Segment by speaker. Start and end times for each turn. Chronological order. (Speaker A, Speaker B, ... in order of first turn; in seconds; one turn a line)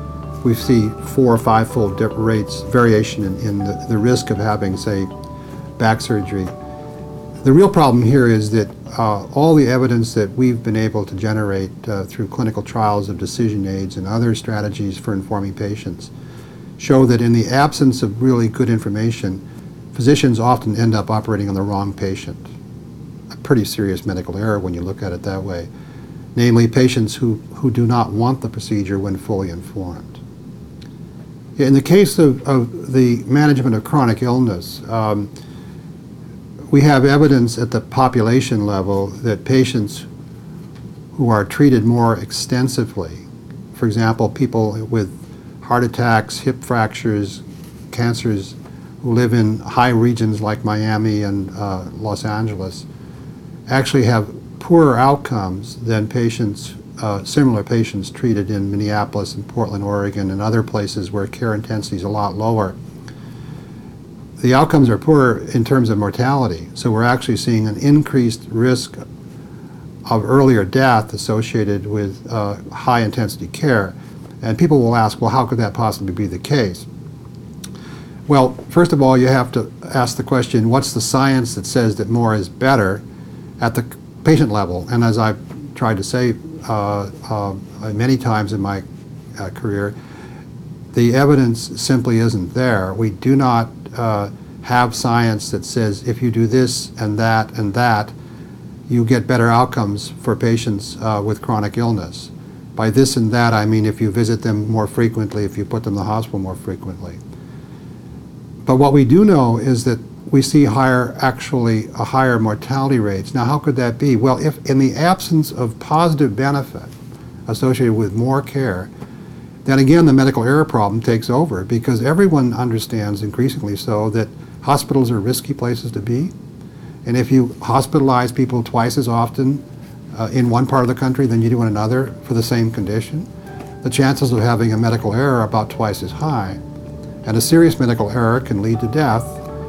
Speaker A: 0.4-5.1
Speaker A: 5.8-6.5
Speaker A: 7.4-16.1
Speaker A: 16.8-19.4
Speaker A: 19.9-22.5
Speaker A: 23.4-25.7
Speaker A: 26.3-30.2
Speaker A: 31.6-35.3
Speaker A: 36.7-40.1
Speaker A: 41.1-52.9
Speaker A: 53.7-62.8
Speaker A: 64.4-69.0
Speaker A: 70.0-76.9
Speaker A: 78.3-83.0
Speaker A: 83.6-90.0
Speaker A: 90.9-98.1
Speaker A: 98.9-107.2
Speaker A: 108.7-116.9
Speaker A: 117.5-118.9
Speaker A: 119.6-126.3
Speaker A: 127.0-133.3
Speaker A: 133.8-136.6
Speaker A: 137.2-139.4